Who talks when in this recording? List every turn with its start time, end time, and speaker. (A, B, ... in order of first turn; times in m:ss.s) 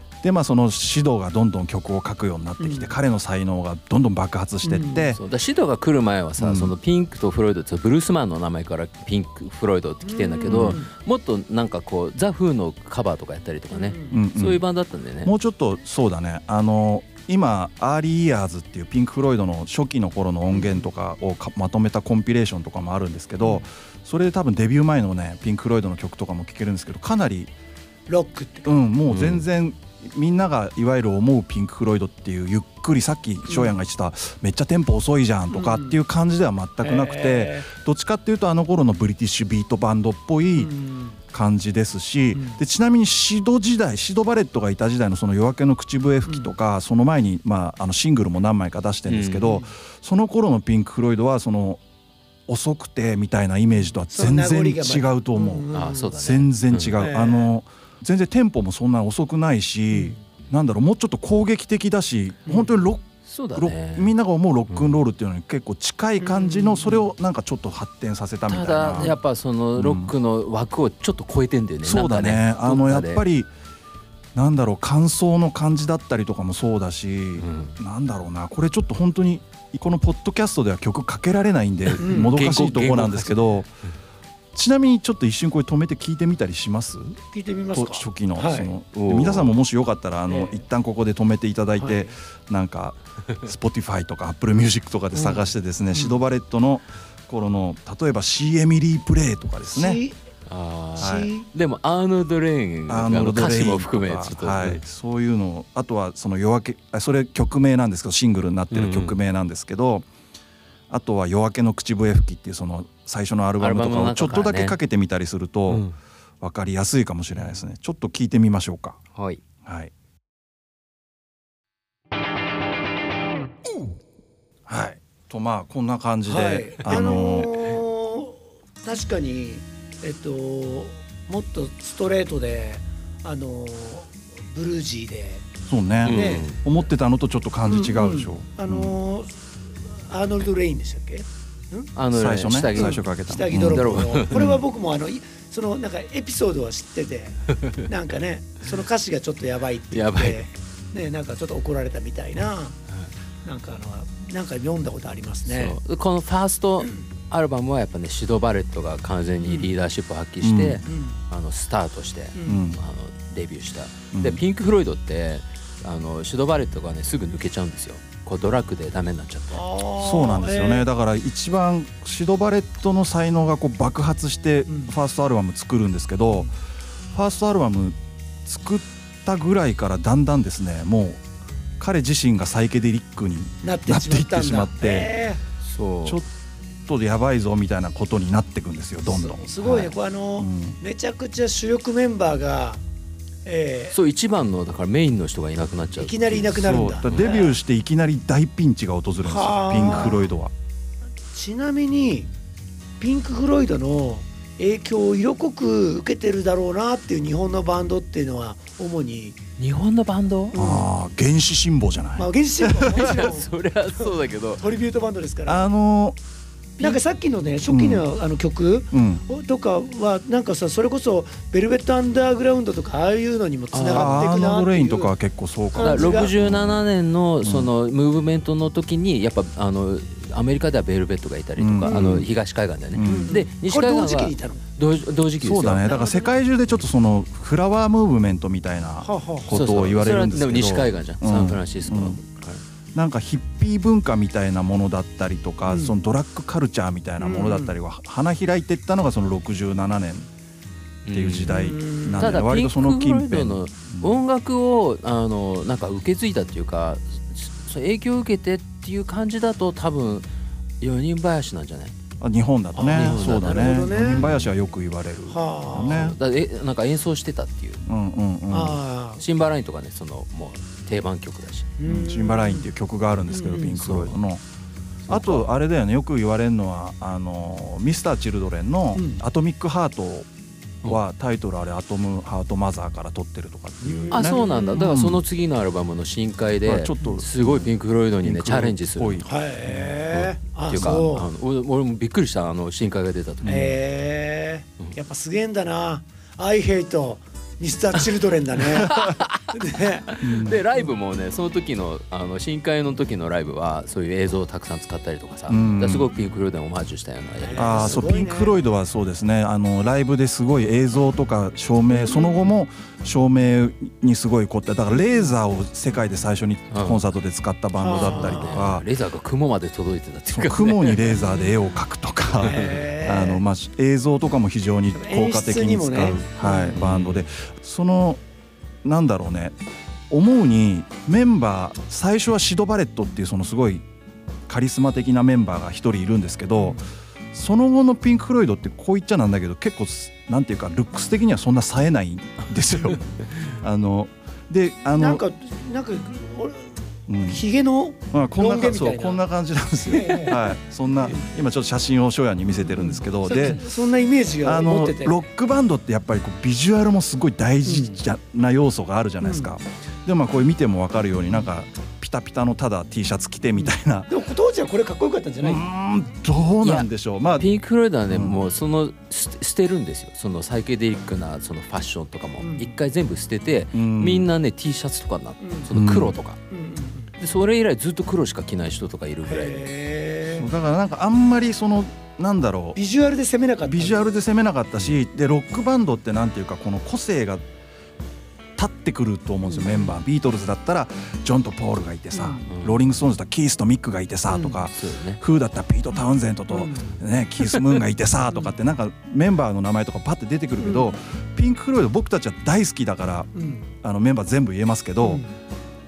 0:00.2-0:05.2 A
0:02.6-0:03.0 B
0:04.6-0:05.2 B
0:05.1-0:15.3 C
0:06.4-0:06.8 A
0:10.0-0:10.9 B
0:10.5-0:10.8 A
0:13.7-0:14.2 B
0:14.1-0:14.6 A
0:15.2-0:27.5 A
0:20.5-0:20.9 B
0:28.1-0:28.7 B
0:28.6-0:40.7 A
0:29.0-0:29.4 C
0:33.5-0:33.7 B
0:35.5-0:36.0 B
0:36.8-0:37.7 B
0:40.6-0:41.2 B
0:41.3-0:51.8 A
0:42.3-0:42.6 B
0:46.3-0:46.5 B
0:49.0-0:49.6 C
0:49.4-0:49.7 B
0:52.5-1:09.2 A
0:54.1-0:56.2 B
0:55.7-0:57.0 C
0:57.0-0:57.5 B
1:02.4-1:02.7 B
1:03.2-1:04.1 C
1:04.7-1:05.0 C
1:06.2-1:07.0 B
1:08.5-1:13.2 C
1:09.8-1:10.1 A
1:11.8-1:13.5 A
1:14.3-1:23.7 A
1:17.4-1:17.8 C
1:21.9-1:23.7 C
1:22.0-1:22.4 B
1:24.5-1:27.2 A
1:27.3-1:28.7 B
1:27.7-1:40.0 A
1:28.9-1:29.6 C
1:30.3-1:30.6 B
1:31.8-1:32.1 B
1:35.1-1:36.2 B
1:39.6-1:40.2 B
1:40.4-1:44.8 C
1:41.0-1:41.5 B
1:41.0-1:41.3 A
1:42.9-1:50.1 A
1:48.7-1:49.2 C
1:50.9-1:55.8 A
1:53.6-1:54.8 C
1:55.7-1:56.0 C
1:56.4-1:59.0 A
1:57.3-1:57.6 C
1:59.1-1:59.4 C
1:59.6-1:59.9 A
2:04.7-2:07.5 A
2:06.2-2:15.4 B
2:06.8-2:07.2 C
2:15.7-2:19.0 A
2:16.0-2:16.6 C
2:16.0-2:16.4 B
2:17.6-2:19.4 B
2:20.0-2:21.9 B
2:21.9-2:23.0 C
2:22.1-2:24.6 A
2:22.7-2:32.8 B
2:23.6-2:24.5 C
2:29.9-2:30.5 C
2:33.4-2:35.8 B
2:35.4-2:49.6 C
2:39.4-2:39.7 B
2:40.4-2:40.8 A
2:40.8-2:41.2 B
2:42.3-2:42.7 B
2:42.4-2:42.8 A
2:44.1-2:44.4 A
2:49.5-2:50.9 B
2:50.0-2:56.5 A
2:54.6-2:54.9 B
2:57.1-3:01.2 A
3:01.8-3:05.1 A
3:03.6-3:05.4 B
3:05.6-3:06.2 C
3:06.0-3:06.3 A
3:06.9-3:09.5 A
3:09.0-3:12.8 B
3:09.6-3:09.9 C
3:10.4-3:10.8 A
3:13.4-3:13.9 B
3:13.9-3:17.3 C
3:16.0-3:17.6 B
3:16.6-3:20.5 A
3:19.2-3:20.3 B
3:21.3-3:22.3 B
3:23.0-3:29.4 B
3:29.6-3:30.6 C
3:30.5-3:30.9 B
3:30.5-3:33.1 A
3:32.2-3:35.7 B
3:32.8-3:34.6 C
3:35.4-3:36.2 A
3:36.8-3:45.1 B
3:37.7-3:38.0 A
3:38.9-3:39.2 A
3:43.7-3:44.2 C
3:43.9-3:46.9 A
3:45.7-3:46.3 B
3:45.8-3:56.0 C
3:47.4-3:47.7 A
3:51.6-3:52.3 A
3:51.9-3:52.3 B
3:52.9-3:53.3 A
3:53.0-3:54.6 B
3:55.4-4:02.2 A
3:55.8-3:56.3 B
3:59.0-3:59.6 B
3:59.5-4:02.6 C
4:02.9-4:10.3 A
4:05.6-4:06.0 B
4:07.2-4:07.7 B
4:11.0-4:20.3 C
4:11.1-4:14.2 A
4:11.5-4:12.4 B
4:20.8-4:21.9 C
4:22.2-4:26.2 A
4:22.7-4:24.2 B
4:22.9-4:24.5 C
4:25.3-4:26.0 B
4:25.8-4:27.8 C
4:27.8-4:28.8 A
4:28.5-4:29.2 B
4:29.2-4:31.7 C
4:31.8-4:32.7 B
4:31.8-4:34.4 A
4:33.3-4:33.8 B
4:33.8-4:34.1 C
4:35.0-4:35.5 C
4:35.1-4:40.3 A
4:38.9-4:39.2 B
4:40.8-4:45.2 A
4:43.8-4:44.9 B
4:44.1-4:53.6 C
4:46.6-4:49.3 A
4:49.2-4:51.3 B
4:53.4-4:53.7 A
4:53.4-4:59.0 B
4:58.8-4:59.4 C
4:59.5-5:00.2 B
5:00.1-5:08.0 C
5:00.2-5:00.6 A
5:05.5-5:06.1 A
5:07.4-5:08.6 B
5:07.6-5:18.8 A
5:11.9-5:12.4 B
5:16.7-5:17.0 C
5:17.8-5:18.6 B
5:17.9-5:21.1 C
5:20.3-5:28.2 A
5:22.4-5:23.4 B
5:22.5-5:22.8 C
5:24.9-5:26.8 B
5:26.7-5:27.3 C
5:28.8-5:29.6 A
5:30.1-5:33.8 A
5:34.5-5:36.8 A
5:36.6-5:36.8 B
5:37.3-5:45.2 A
5:42.8-5:43.4 C
5:45.0-5:49.2 B
5:47.1-5:47.4 A
5:48.1-5:53.7 A
5:49.8-5:51.2 B
5:52.4-5:55.2 B
5:54.4-6:04.1 A
5:57.6-5:58.0 B
5:59.2-5:59.6 B
6:03.6-6:05.6 B
6:05.4-6:07.5 A
6:06.6-6:16.4 C
6:08.1-6:08.4 A
6:12.4-6:12.7 B
6:13.7-6:14.3 A
6:15.4-6:15.7 B
6:15.7-6:16.2 A
6:16.5-6:17.2 B
6:17.2-6:19.6 C
6:19.2-6:20.5 B
6:20.3-6:22.8 A
6:22.8-6:24.1 B
6:23.6-6:27.4 A
6:28.6-6:45.2 A
6:29.4-6:30.0 B
6:32.1-6:32.5 B
6:32.5-6:32.8 C
6:34.3-6:34.6 B
6:34.7-6:35.2 C
6:36.5-6:36.9 B
6:37.4-6:37.8 C
6:38.3-6:38.5 B
6:40.6-6:40.9 B
6:43.3-6:43.7 B
6:45.0-6:45.3 B